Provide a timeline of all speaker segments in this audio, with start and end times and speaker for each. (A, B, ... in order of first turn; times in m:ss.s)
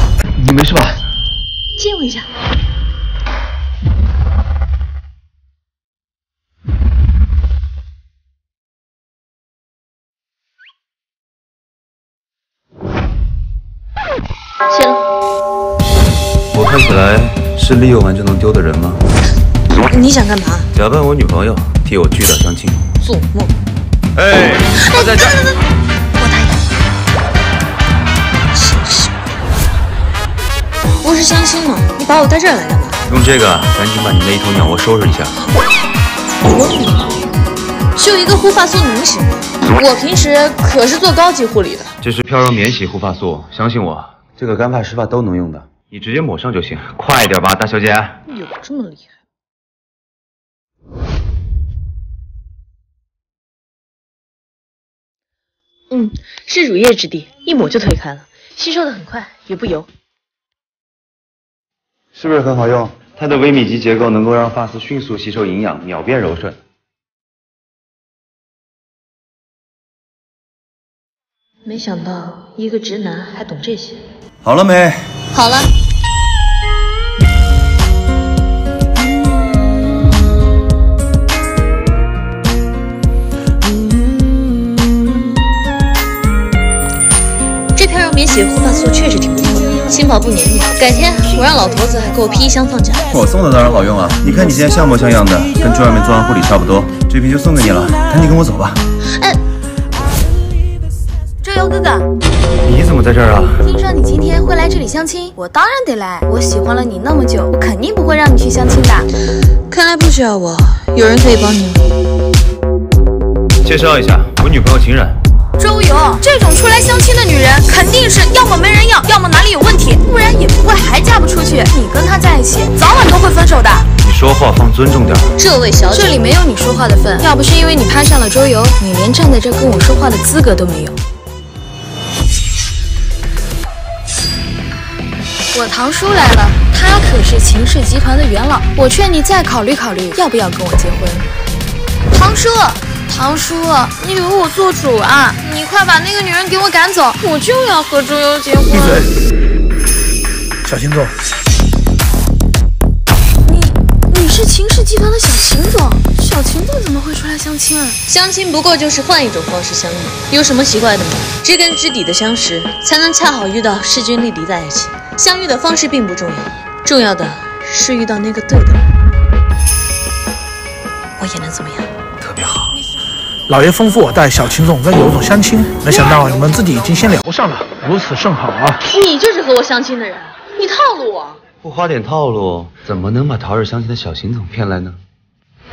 0:00.4-0:01.0 A
0:01.8-0:02.3 B
0:14.7-0:15.0 B
0:16.5-0:19.0 A
0:19.9-0:20.7 B
0:20.7-0:22.8 A
0:23.0-0:23.5 B
0:24.1-0:25.4 A
0:24.8-0:25.6 B
0:26.2-0:26.6 B
0:28.5-0:29.1 B
0:31.0-0:33.0 B
0:33.1-0:35.4 A
0:36.4-0:37.1 B
0:37.9-0:41.9 B
0:42.0-0:48.2 A
0:48.3-0:49.1 B
0:55.9-0:59.9 B
1:02.1-1:06.6 A
1:11.6-1:14.0 B
1:14.4-1:15.1 A
1:15.3-1:15.7 B
1:27.7-1:33.0 B
1:33.1-1:38.8 A
1:39.1-1:39.4 B
1:41.4-1:42.0 C
1:42.6-1:43.7 A
1:43.6-1:49.1 C
1:49.7-1:51.8 B
1:53.6-1:55.2 A
1:55.6-2:03.9 C
2:04.0-2:05.3 A
2:05.4-2:06.2 B
2:05.9-2:11.0 C
2:15.5-2:21.3 C
2:22.1-2:28.9 C
2:28.7-2:29.1 D
2:30.6-2:31.1 D
2:33.4-2:38.0 C
2:38.0-2:48.8 B
2:51.2-2:51.9 B
2:52.2-2:52.8 A
2:53.5-2:58.8 D
2:58.8-3:01.4 B
3:01.6-3:05.0 A